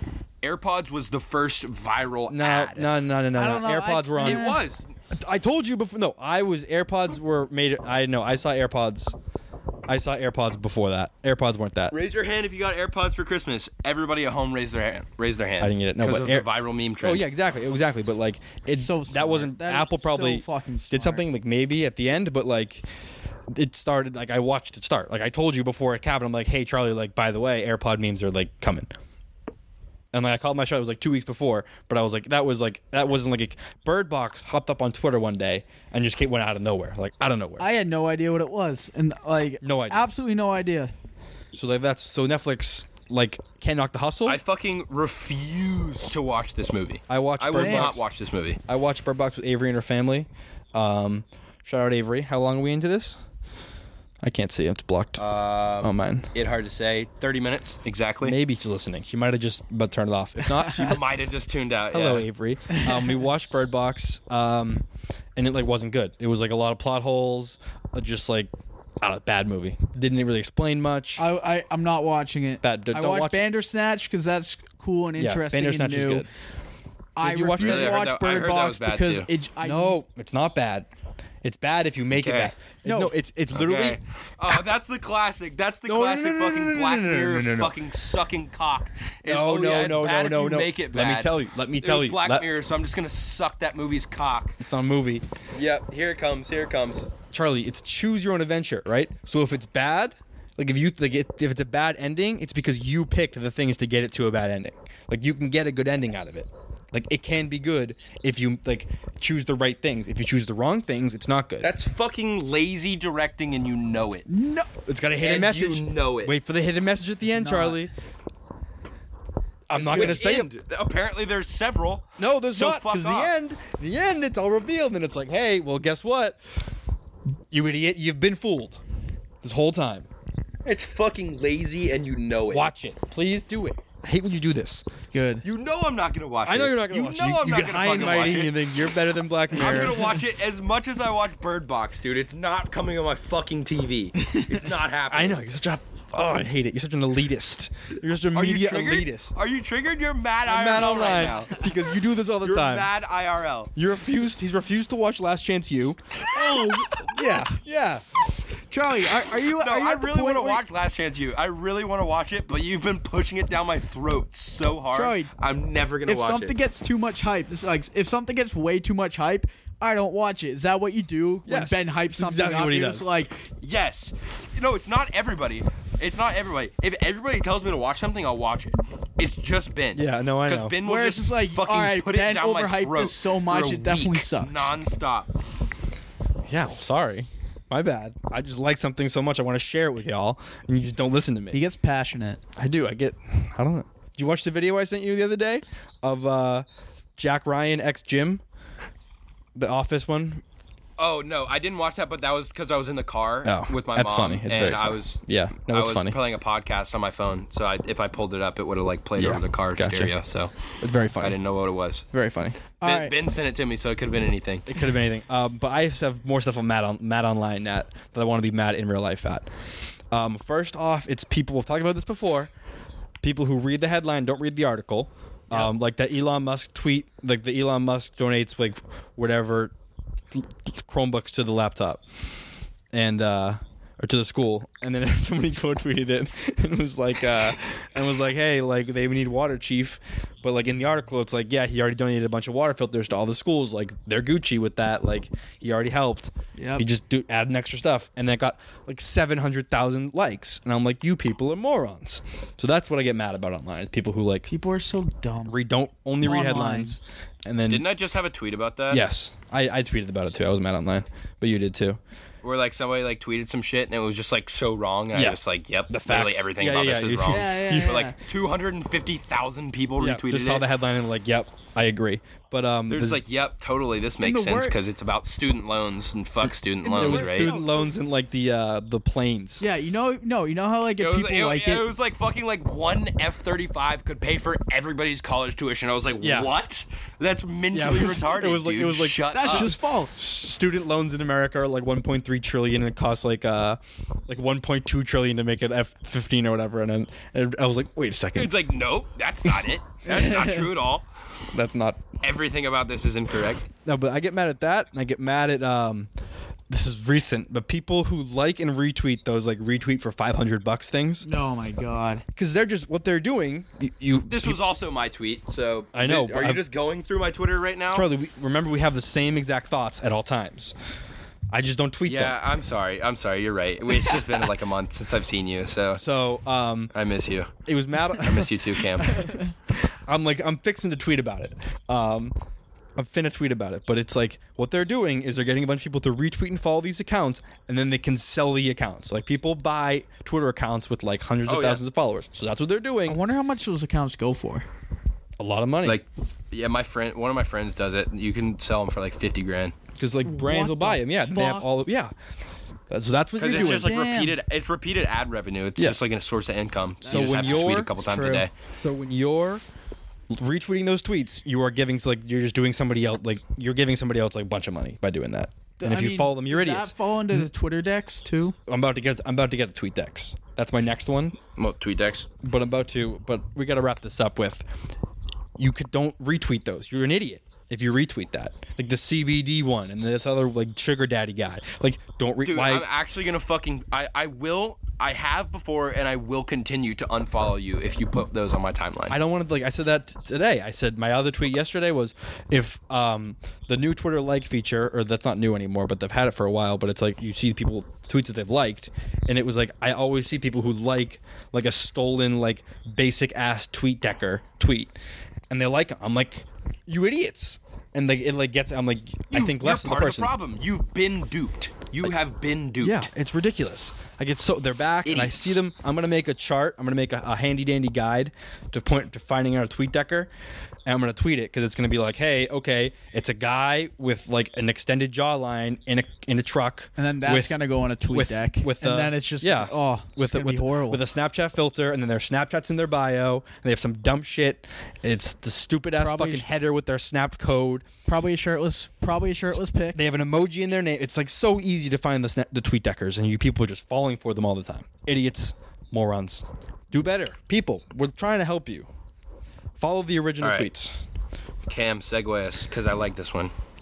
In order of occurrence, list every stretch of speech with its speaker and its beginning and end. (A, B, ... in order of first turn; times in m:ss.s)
0:00.4-0:02.9 A
0:02.3-0:04.5 B
0:03.3-0:04.6 C
0:04.2-0:04.8 A
0:05.1-0:09.2 B
0:09.9-0:11.9 B
0:11.9-0:17.2 A
0:15.6-0:16.5 B
0:17.0-0:22.8 B
0:18.7-0:21.2 C
0:23.5-0:28.9 B
0:30.1-0:37.7 B
0:37.6-0:40.9 C
0:39.6-0:40.0 B
0:41.5-0:44.4 B
0:44.2-0:48.6 A
0:47.1-0:48.0 B
0:47.5-0:47.9 C
0:48.7-0:53.2 B
0:54.2-0:55.2 B
0:55.2-0:58.4 A
0:55.8-0:56.3 B
0:58.2-1:01.1 B
1:00.7-1:02.3 A
1:01.9-1:11.2 B
1:02.7-1:03.2 C
1:11.2-1:16.3 C
1:12.6-1:13.5 B
1:15.2-1:16.3 B
1:17.2-1:20.0 C
1:17.2-1:18.1 B
1:17.6-1:19.3 A
1:19.6-1:20.9 B
1:21.4-1:24.0 B
1:22.1-1:22.5 A
1:22.8-1:23.2 C
1:23.5-1:34.6 A
1:25.8-1:27.8 B
1:29.2-1:32.5 B
1:34.6-1:35.2 B
1:35.5-1:37.1 A
1:37.3-1:51.7 B
1:51.6-1:54.3 A
1:54.3-1:54.7 C
1:54.8-1:57.9 B
1:55.2-1:56.3 A
1:57.3-1:57.9 C
1:59.7-2:00.5 B
1:59.7-2:03.3 A
2:02.2-2:06.4 B
2:07.5-2:08.8 B
2:09.4-2:10.1 B
2:10.6-2:12.7 A
2:12.5-2:14.8 B
2:15.0-2:15.4 C
2:15.4-2:18.9 A
2:16.4-2:20.2 B
2:19.5-2:25.4 A
2:24.2-2:24.5 C
2:25.1-2:29.3 B
2:28.3-2:31.7 A
2:30.4-2:32.9 B
2:32.4-2:33.7 A
2:33.7-2:38.0 B
2:36.3-2:36.9 C
2:36.4-2:37.3 A
2:38.7-2:40.6 C
2:39.1-2:46.6 A
2:44.9-2:45.3 C
2:46.1-2:53.4 C
2:51.5-2:53.1 B
2:53.6-3:05.3 A
2:59.9-3:00.8 B
3:00.8-3:04.7 C
3:06.4-3:11.6 B
3:11.5-3:12.4 C
3:12.6-3:16.6 B
3:17.2-3:18.4 B
3:19.5-3:20.4 B
3:21.0-3:30.5 A
3:23.4-3:26.2 B
3:29.2-3:30.1 B
3:30.8-3:31.4 B
3:31.2-3:32.0 A
3:32.1-3:32.6 B
3:32.8-3:33.1 C
3:32.8-3:34.7 A
3:34.7-3:39.5 B
3:40.1-3:42.5 B
3:43.2-3:49.7 B
3:50.3-3:52.0 B
3:52.9-4:14.5 B
4:06.6-4:06.8 C
4:14.5-4:15.6 C
4:15.4-4:17.8 B
4:16.2-4:17.0 C
4:17.7-4:19.0 A
4:18.9-4:22.0 B
4:22.4-4:30.6 A
4:25.1-4:28.0 B
4:27.3-4:28.2 C
4:30.0-4:33.2 B
4:32.9-4:37.5 A
4:34.2-4:34.8 C
4:36.8-4:37.8 C
4:36.9-4:39.6 B
4:39.6-4:41.8 C
4:41.0-4:49.7 A
4:46.2-4:46.5 B
4:47.7-4:58.5 B
4:49.3-4:50.2 C
4:58.4-5:01.0 A
5:00.0-5:00.7 C
5:01.5-5:02.0 B
5:02.2-5:03.6 A
5:03.8-5:06.1 B
5:06.7-5:11.2 B
5:11.2-5:12.2 C
5:12.3-5:14.6 B
5:14.3-5:18.1 A
5:15.9-5:16.6 B
5:17.9-5:20.7 B
5:21.5-5:22.4 B
5:22.0-5:26.0 A
5:25.9-5:26.9 B
5:26.9-5:27.5 A
5:27.6-5:29.3 B
5:28.2-5:29.3 A
5:30.1-5:32.3 B
5:33.0-5:43.2 B
5:41.5-5:41.8 A
5:43.1-5:44.6 C
5:45.4-5:46.0 B
5:45.8-5:49.7 A
5:49.9-5:52.1 B
5:50.2-5:51.7 C
5:52.9-5:53.9 B
5:53.4-5:58.5 A
5:53.5-5:54.4 C
5:57.0-5:58.5 C
5:57.1-5:57.9 B
5:58.7-5:59.6 B
6:00.3-6:07.4 B
6:05.8-6:08.6 C
6:08.7-6:11.4 B
6:11.6-6:12.3 A
6:12.4-6:14.7 B
6:15.6-6:22.9 B
6:22.4-6:29.2 A
6:29.1-6:44.9 B
6:45.5-6:50.3 B
6:49.3-6:53.1 A
6:52.8-7:00.3 B
6:55.0-6:55.6 A
7:00.8-7:07.6 B
7:07.0-7:11.0 C
7:08.1-7:17.9 B
7:16.0-7:16.5 C
7:18.1-7:20.0 C
7:19.9-7:28.9 B
7:29.8-7:30.9 B
7:30.4-7:30.7 A
7:31.7-7:33.5 A